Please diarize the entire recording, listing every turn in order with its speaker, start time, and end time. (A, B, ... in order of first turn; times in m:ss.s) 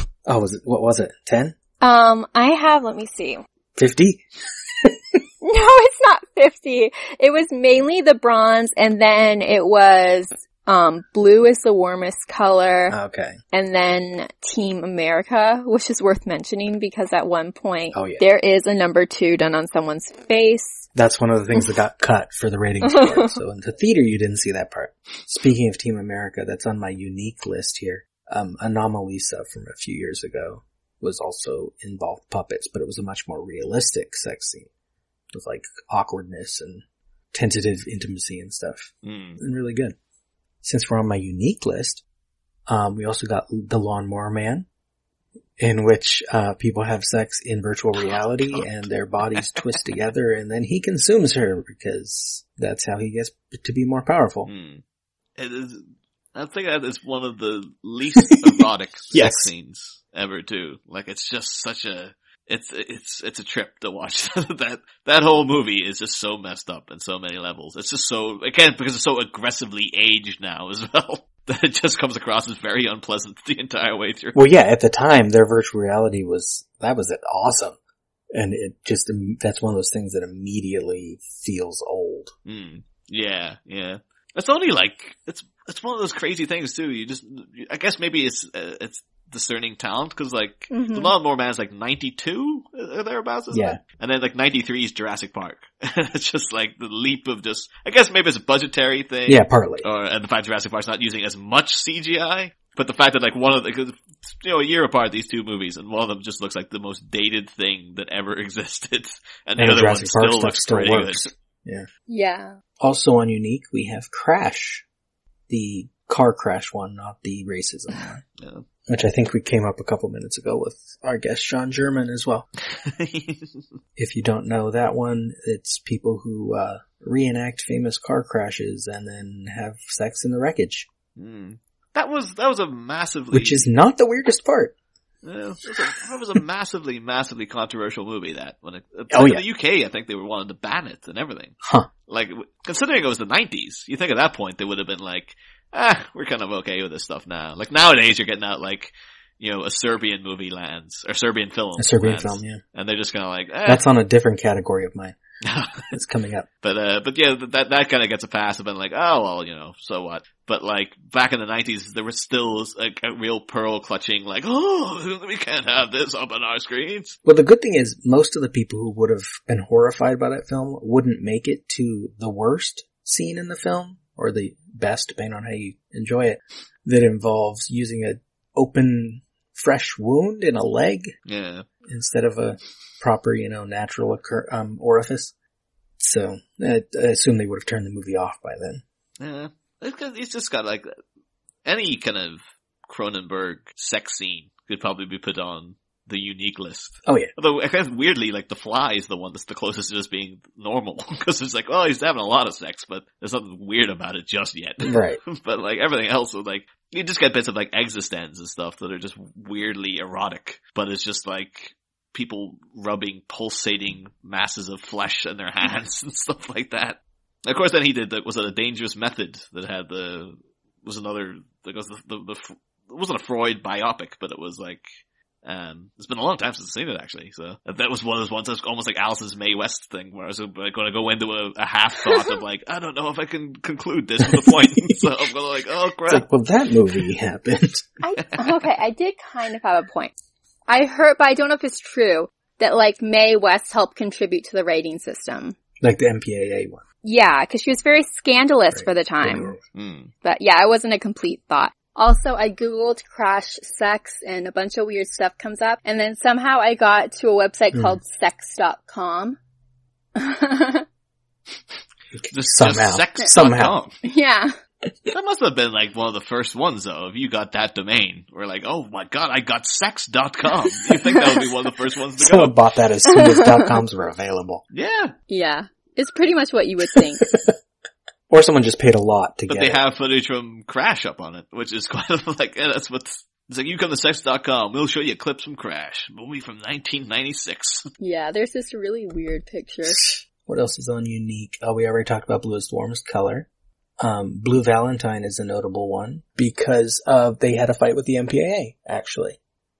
0:00.3-0:01.6 A
0:01.8-0:03.4 B
0:03.8-0:05.0 A
0:05.4-0:13.0 B
0:12.9-0:13.4 A
0:13.5-0:20.9 B
0:17.9-0:18.2 A
0:21.0-0:34.7 A
0:35.3-0:40.0 A
0:39.0-0:39.4 C
0:40.6-0:42.0 A
0:42.7-0:44.7 A
0:45.6-0:54.5 A
0:54.5-0:54.8 C
0:55.4-1:14.4 C
0:58.3-0:58.6 A
0:59.1-0:59.5 A
1:14.4-1:17.8 A
1:18.3-1:22.3 A
1:22.5-1:51.3 C
1:30.7-1:31.1 B
1:33.5-1:33.8 A
1:39.3-1:39.9 A
1:49.6-1:51.9 A
1:52.1-1:52.6 B
1:52.8-1:54.8 A
1:55.5-1:58.2 A
1:58.4-1:58.6 C
1:58.9-2:02.5 A
2:02.6-2:03.6 C
2:04.0-2:10.9 A
2:11.2-2:13.6 C
2:13.3-2:14.7 A
2:15.2-2:21.6 C
2:19.1-2:19.4 A
2:21.6-2:21.9 A
2:22.1-2:33.8 C
2:31.8-2:32.6 A
2:33.7-2:35.2 A
2:35.4-2:35.9 C
2:35.9-2:36.5 A
2:36.6-2:47.2 C
2:47.2-3:01.2 A
3:01.3-3:01.7 C
3:01.8-3:05.3 A
3:06.0-3:08.8 A
3:09.2-3:11.0 C
3:11.6-3:44.9 C
3:17.1-3:17.3 A
3:24.8-3:25.2 A
3:45.4-3:56.3 C
3:54.2-3:55.1 A
3:56.1-3:57.9 A
3:58.0-4:00.1 B
4:00.7-4:05.6 B
4:05.8-4:06.8 A
4:07.0-4:09.6 B
4:08.7-4:09.6 A
4:09.8-4:10.1 C
4:10.2-4:19.4 B
4:20.2-4:20.8 B
4:22.1-4:23.8 A
4:22.3-4:23.9 C
4:24.0-4:24.6 B
4:25.1-4:32.6 C
4:32.2-4:34.6 A
4:33.1-4:33.7 B
4:34.7-4:35.2 C
4:35.3-4:37.3 B
4:37.2-4:37.6 A
4:38.3-4:39.8 A
4:39.5-4:47.9 C
4:48.0-4:50.0 B
4:50.4-4:53.5 A
4:54.0-4:59.4 A